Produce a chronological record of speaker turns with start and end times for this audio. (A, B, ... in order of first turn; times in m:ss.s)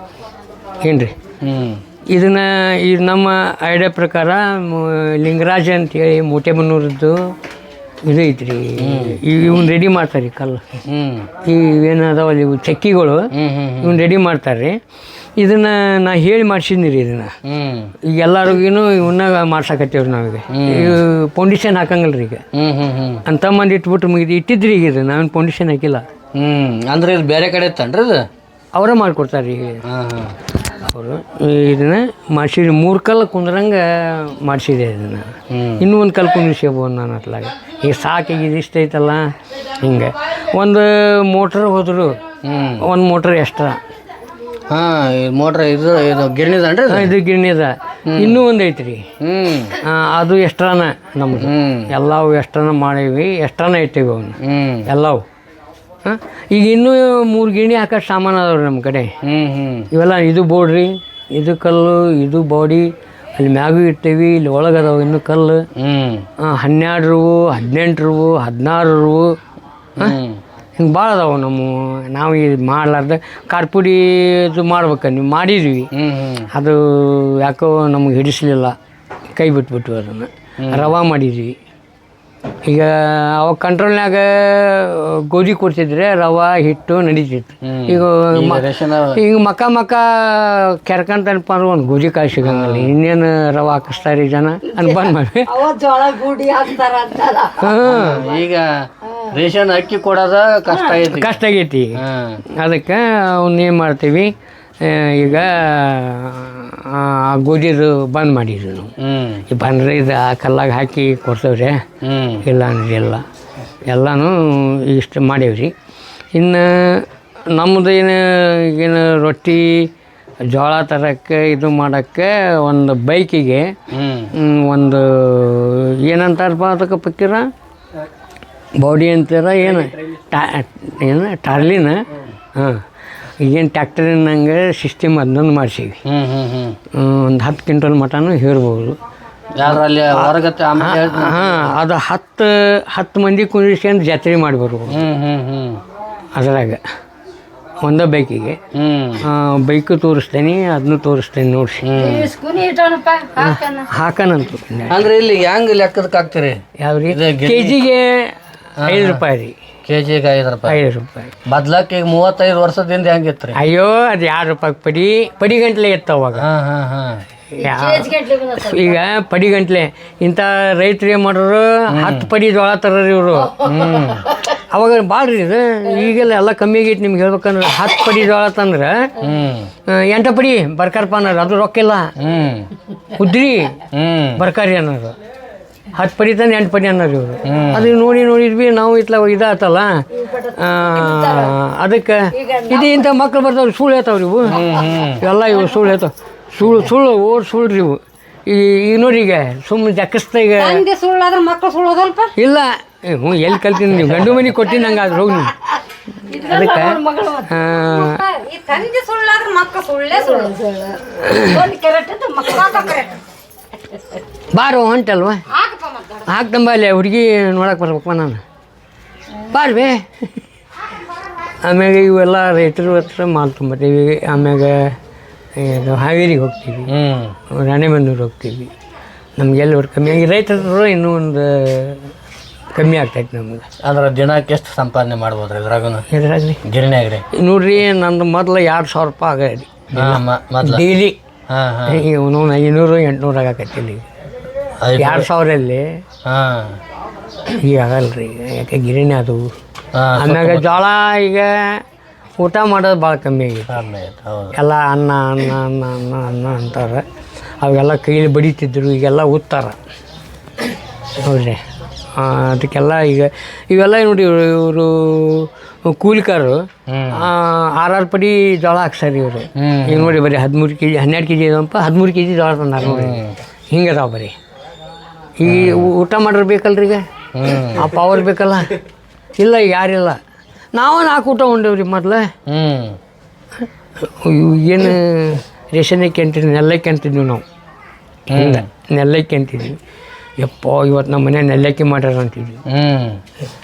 0:00.8-0:01.1 A
0:01.4-0:01.8 B
0:02.1-0:07.3 A
0:08.0-0:10.6 A
0:08.8-0:09.2 B
0:10.8-0:11.3 B
0:11.4-0:14.8 A
0:13.3-0:14.0 B
0:15.4-0:17.4 A
0:17.4-0:17.9 B
0:18.1-0:22.4 A
0:20.5-0:21.0 B
0:22.5-0:23.2 B
0:23.3-0:26.0 A
0:26.3-0:28.3 B
0:28.7-0:29.8 A
0:29.8-0:30.4 B
0:30.7-0:42.2 A
0:35.5-0:35.8 B
0:42.4-0:42.8 B
0:42.8-0:43.8 A
0:44.7-0:47.1 B
0:46.9-0:49.1 A
0:48.1-0:48.4 B
0:49.2-0:49.8 B
0:49.8-0:55.2 A
0:51.4-0:51.9 B
0:54.4-0:54.9 B
0:56.0-0:59.1 A
0:59.2-0:59.9 B
0:59.9-1:05.7 A
1:05.8-1:06.3 B
1:06.4-1:09.4 A
1:10.0-1:10.4 B
1:10.8-1:15.9 A
1:15.9-1:16.5 B
1:16.5-1:18.8 A
1:19.3-1:21.6 A
1:20.6-1:20.9 B
1:22.6-1:35.6 A
1:27.6-1:29.2 B
1:32.4-1:32.9 B
1:35.5-1:37.7 C
1:37.6-1:38.3 A
1:37.8-1:41.4 B
1:41.0-1:42.0 A
1:42.0-1:42.4 B
1:42.5-1:48.9 A
1:49.0-1:49.4 B
1:49.5-1:51.8 A
1:52.0-1:52.4 B
1:52.4-1:53.2 A
1:53.9-1:55.7 A
1:56.3-1:59.9 A
2:00.5-2:03.8 A
2:03.9-2:04.3 B
2:04.3-2:07.5 A
2:08.8-2:12.8 A
2:13.4-2:16.0 A
2:16.0-2:16.8 B
2:16.9-2:19.0 A
2:19.5-2:21.8 B
2:19.7-2:25.0 A
2:24.9-2:25.8 B
2:26.4-2:26.8 A
2:27.8-2:28.6 A
2:28.7-2:29.2 B
2:29.2-2:31.9 A
2:31.8-2:32.3 B
2:32.0-2:33.9 C
2:33.4-2:35.0 A
2:34.9-2:37.8 B
2:36.8-2:39.6 A
2:38.8-2:39.2 B
2:39.9-2:40.8 B
2:40.7-2:41.3 A
2:41.5-2:43.6 B
2:43.6-2:46.5 A
2:46.4-2:47.2 B
2:47.5-2:53.8 A
2:48.0-2:48.5 C
2:51.9-2:52.3 B
2:53.6-2:54.3 B
2:54.4-2:59.1 A
2:59.2-2:59.7 B
2:59.9-3:02.1 A
3:02.2-3:02.7 B
3:03.1-3:03.8 A
3:03.9-3:04.4 B
3:04.4-3:05.2 A
3:05.9-3:20.9 A
3:07.4-3:07.9 B
3:11.1-3:11.4 C
3:12.4-3:12.9 C
3:14.4-3:15.2 B
3:20.6-3:22.3 C
3:22.4-3:25.6 A
3:26.3-3:28.3 A
3:26.3-3:33.2 C
3:31.1-3:31.7 A
3:34.5-3:35.4 A
3:35.6-3:36.1 C
3:36.1-3:38.4 A
3:39.4-3:40.2 A
3:41.6-3:45.0 A
3:45.6-3:46.9 A
3:46.9-3:47.4 B
3:47.5-3:48.7 A
3:49.4-3:52.1 A
3:52.7-3:53.7 A
3:53.8-3:56.0 B
3:56.1-3:56.6 A
3:56.6-3:57.3 B
3:57.3-4:01.2 A
3:59.9-4:00.9 B
4:01.5-4:02.0 B
4:01.9-4:04.1 A
4:04.8-4:05.3 B
4:05.0-4:06.0 A
4:06.2-4:06.8 B
4:07.4-4:09.5 A
4:09.9-4:10.8 B
4:10.2-4:11.8 A
4:12.4-4:13.8 A
4:13.7-4:14.6 B
4:14.5-4:17.0 A
4:17.6-4:19.8 A
4:21.2-4:21.6 A
4:22.2-4:34.4 A
4:26.9-4:27.3 B
4:29.6-4:30.2 B
4:32.8-4:33.4 B
4:35.4-4:37.0 A
4:35.4-4:35.9 B
4:37.3-4:37.9 B
4:37.6-4:38.8 A
4:39.4-4:40.2 A
4:40.7-4:42.3 A
4:42.5-4:43.0 B
4:43.6-4:47.4 A
4:48.3-4:48.7 B
4:48.3-4:49.8 A
4:50.4-4:52.6 A
4:52.7-4:53.2 B